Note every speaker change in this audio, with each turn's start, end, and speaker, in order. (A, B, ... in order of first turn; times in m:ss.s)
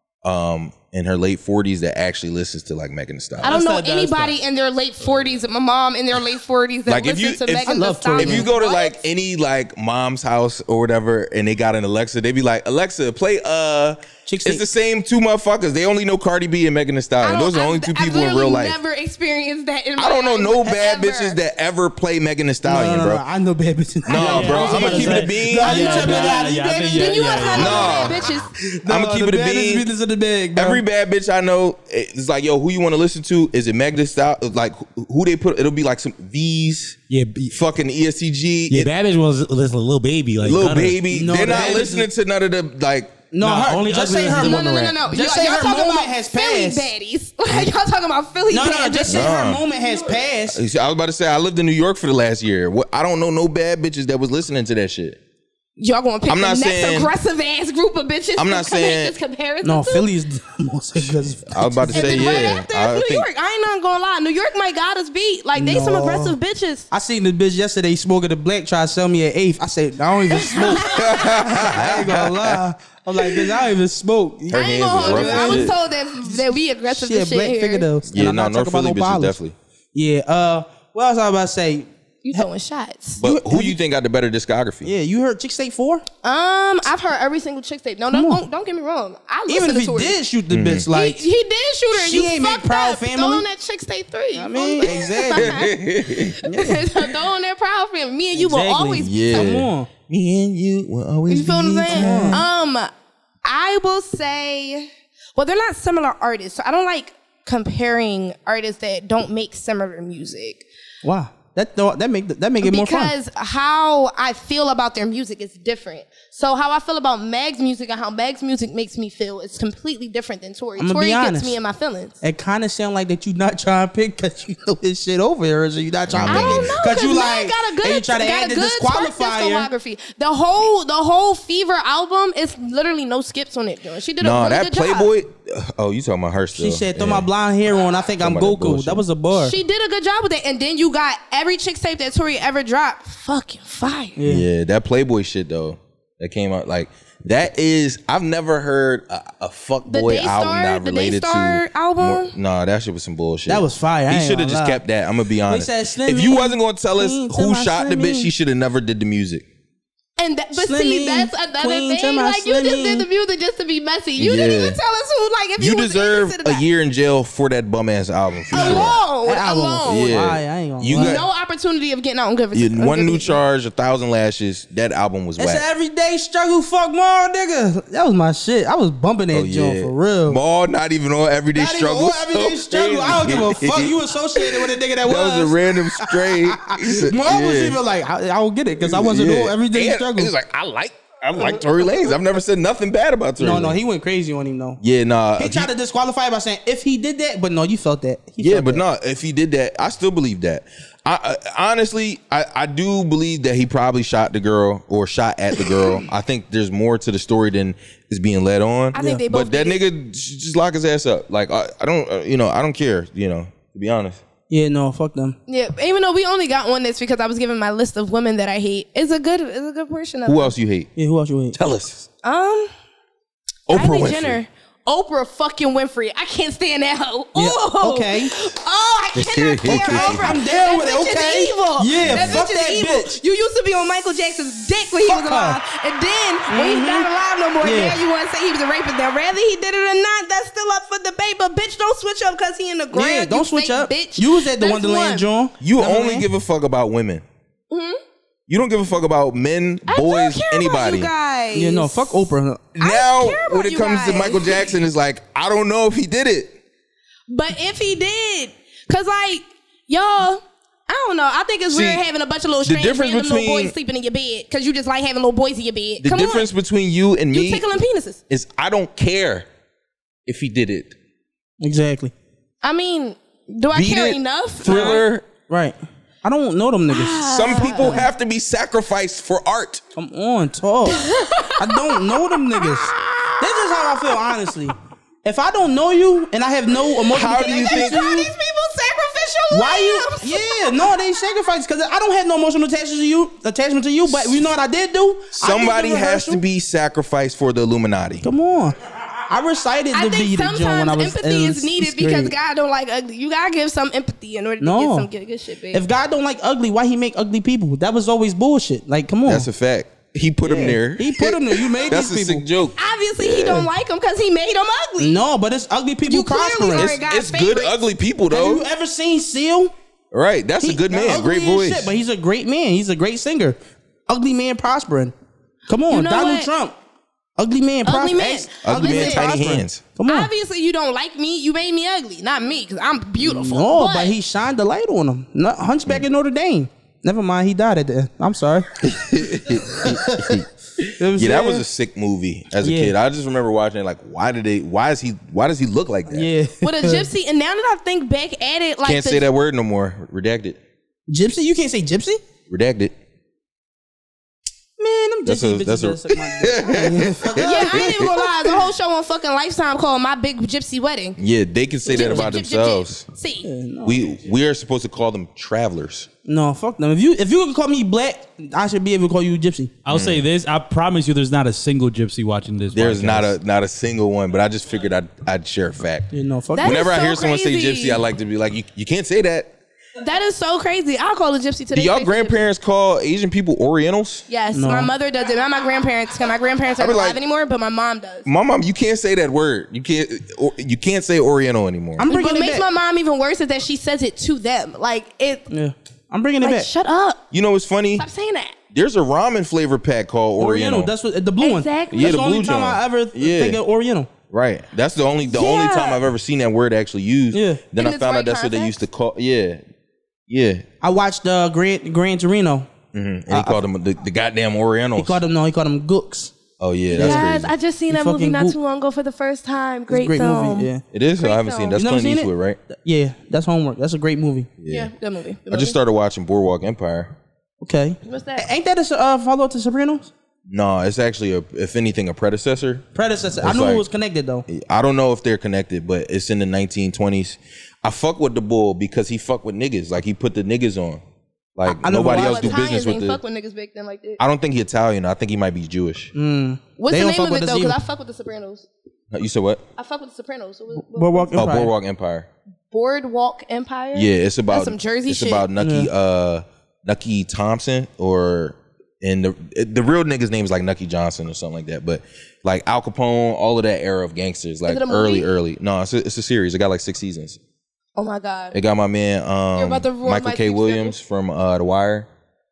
0:00.2-0:03.6 A
0:03.4-0:04.4 B
0:03.4-0:09.0 C
0:06.9-0:18.8 A
0:07.7-0:08.5 B
0:14.3-0:14.6 B
0:17.2-0:21.4 C
0:20.0-0:23.2 A
0:22.6-0:28.0 B
0:24.1-0:26.4 A
0:24.1-0:28.0 D
0:26.1-0:28.5 C
0:27.5-0:28.3 A
0:28.7-0:30.8 B
0:28.8-0:29.9 A
0:30.6-0:37.0 A
0:37.1-0:37.5 E
0:37.5-0:38.9 A
0:38.7-0:41.9 E
0:40.4-0:43.2 A
0:41.1-0:42.1 B
0:43.3-0:46.9 B
0:43.4-0:45.0 E
0:44.3-0:50.0 C
0:48.5-0:50.6 B
0:49.1-0:49.6 A
0:50.4-0:55.2 A
0:55.8-1:00.1 C
0:56.3-0:57.1 A
0:58.4-0:59.2 A
0:59.6-1:02.6 B
1:01.0-1:03.3 A
1:01.9-1:06.9 C
1:05.6-1:06.4 B
1:06.9-1:19.4 B
1:10.4-1:11.3 C
1:10.7-1:12.6 A
1:13.2-1:13.5 A
1:14.5-1:15.8 A
1:14.5-1:17.9 C
1:18.1-1:19.6 A
1:19.9-1:22.4 B
1:22.2-1:23.2 C
1:23.2-1:24.9 A
1:23.2-1:23.8 B
1:24.8-1:26.0 B
1:26.2-1:30.2 C
1:28.1-1:28.4 B
1:29.5-1:31.3 B
1:30.5-1:30.9 A
1:30.9-1:39.5 C
1:31.9-1:33.4 B
1:34.4-1:35.6 B
1:35.3-1:36.4 A
1:36.5-1:36.8 B
1:38.3-1:39.9 B
1:39.0-1:42.5 A
1:41.3-1:42.9 C
1:41.9-1:42.4 B
1:43.4-1:50.6 C
1:51.0-1:53.1 B
1:52.6-2:02.2 C
2:00.8-2:01.6 B
2:02.2-2:09.7 B
2:06.1-2:06.8 A
2:06.3-2:15.1 C
2:14.2-2:17.3 A
2:16.6-2:19.6 B
2:18.2-2:19.0 A
2:19.3-2:24.2 C
2:24.2-2:24.5 B
2:24.2-2:39.4 A
2:29.9-2:32.4 C
2:33.5-2:34.8 B
2:35.5-2:38.3 B
2:40.2-2:46.6 C
2:40.6-2:43.1 B
2:44.2-2:44.8 A
2:45.6-2:49.0 A
2:48.5-2:51.2 B
2:48.5-2:50.2 C
2:49.9-2:51.2 A
2:50.9-2:53.4 C
2:52.5-2:55.7 A
2:55.4-3:00.4 B
2:59.3-3:07.8 A
3:01.6-3:10.3 B
3:08.8-3:13.8 A
3:13.4-3:14.8 B
3:14.8-3:15.7 A
3:15.4-3:18.8 B
3:18.4-3:34.2 A
3:28.9-3:29.8 C
3:34.5-3:35.4 B
3:35.5-3:40.5 C
3:40.3-3:40.9 A
3:41.0-3:41.6 B
3:41.5-3:42.1 A
3:42.2-3:42.7 C
3:43.7-3:44.4 A
3:43.7-4:05.3 C
3:47.4-3:48.3 B
3:49.2-3:50.4 A
3:49.6-3:53.2 B
3:52.0-3:52.4 A
3:55.1-3:55.6 B
3:56.5-3:57.1 B
3:57.6-3:58.0 B
4:02.9-4:06.3 B
4:05.6-4:07.2 A
4:07.7-4:08.0 C
4:08.5-4:11.1 A
4:09.9-4:14.7 C
4:11.6-4:12.7 B
4:12.8-4:16.6 A
4:17.3-4:26.5 C
4:21.7-4:22.0 A
4:22.6-4:23.8 A
4:26.0-4:27.6 A
4:27.3-4:28.2 C
4:28.3-4:29.5 A
4:30.3-4:31.0 A
4:31.6-4:32.1 B
4:32.6-4:35.1 C
4:33.7-4:35.3 A
4:34.7-4:38.1 B
4:36.9-4:38.1 C
4:37.3-4:39.8 A
4:40.0-4:48.3 B
4:40.9-4:44.2 C
4:47.1-4:51.1 C
4:47.1-4:48.2 A
4:49.5-4:56.4 B
4:55.4-4:58.3 A
4:58.2-5:02.3 B
4:59.9-5:05.8 C
5:04.6-5:05.1 B
5:05.7-5:09.5 B
5:09.2-5:13.7 A
5:10.4-5:12.4 B
5:12.8-5:15.2 C
5:15.0-5:16.9 B
5:16.1-5:17.8 C
5:16.7-5:18.7 A
5:18.3-5:19.7 B
5:20.1-5:21.9 A
5:20.6-5:23.6 B
5:24.1-5:25.2 B
5:25.7-5:26.8 B
5:25.9-5:26.5 C
5:27.4-5:30.3 B
5:27.8-5:29.3 C
5:28.6-5:29.8 A
5:30.1-5:34.2 C
5:33.2-5:38.7 B
5:38.8-5:46.3 A
5:39.8-5:40.4 B
5:41.0-5:41.6 B
5:42.6-5:42.9 B
5:46.1-5:47.1 B
5:46.6-5:49.3 C
5:48.8-5:50.6 A
5:51.1-5:52.2 B
5:52.5-5:52.9 A
5:54.8-5:58.0 B
5:55.2-5:58.3 A
5:57.4-6:01.2 C
6:01.2-6:03.1 A
6:01.9-6:02.3 B
6:01.9-6:03.5 C
6:03.4-6:04.0 B
6:03.8-6:06.1 A
6:06.3-6:09.7 B
6:09.8-6:13.3 D
6:09.9-6:10.2 A
6:12.7-6:19.5 A
6:16.1-6:16.9 B
6:16.6-6:18.0 C
6:20.0-6:22.4 C
6:21.7-6:24.3 A
6:24.3-6:28.3 C
6:24.5-6:24.9 B
6:26.8-6:27.2 A
6:28.3-6:32.1 A
6:32.0-6:32.6 B
6:32.1-6:35.5 C
6:35.5-6:36.7 B
6:36.4-6:37.2 C
6:37.3-6:38.1 A
6:38.0-6:38.6 C
6:38.7-6:40.9 A
6:40.4-6:44.1 B
6:41.4-6:42.2 C
6:41.9-6:43.6 A
6:44.3-6:49.6 A
6:45.3-6:46.0 C
6:47.3-6:47.6 B
6:47.8-6:48.8 C
6:50.3-6:50.6 A
6:50.8-6:52.7 B
6:52.9-6:55.2 A
6:53.3-6:53.6 B
6:55.0-6:56.3 B
6:56.6-6:57.5 A
6:56.9-7:01.8 C
6:57.0-6:57.3 B
6:57.9-6:58.6 B
6:59.9-7:00.8 B
7:00.9-7:02.6 A
7:01.7-7:04.5 B
7:04.6-7:04.9 A
7:04.7-7:05.8 C
7:05.5-7:07.2 A
7:07.6-7:10.1 B
7:08.0-7:08.5 C
7:10.5-7:12.9 A
7:13.0-7:14.5 B
7:13.4-7:13.9 A
7:14.5-7:21.0 A
7:21.6-7:23.2 A
7:21.7-7:22.6 B
7:22.0-7:24.2 C
7:24.2-7:26.1 A
7:26.2-7:27.8 B
7:26.8-7:28.7 C
7:29.1-7:29.6 A
7:29.8-7:31.4 C
7:30.8-7:31.7 B
7:31.3-7:32.3 A
7:32.7-7:35.5 C
7:33.9-7:47.4 A
7:35.6-7:35.9 B
7:44.7-7:45.3 C
7:48.0-7:48.6 C
7:48.5-7:52.1 A
7:49.6-7:51.0 C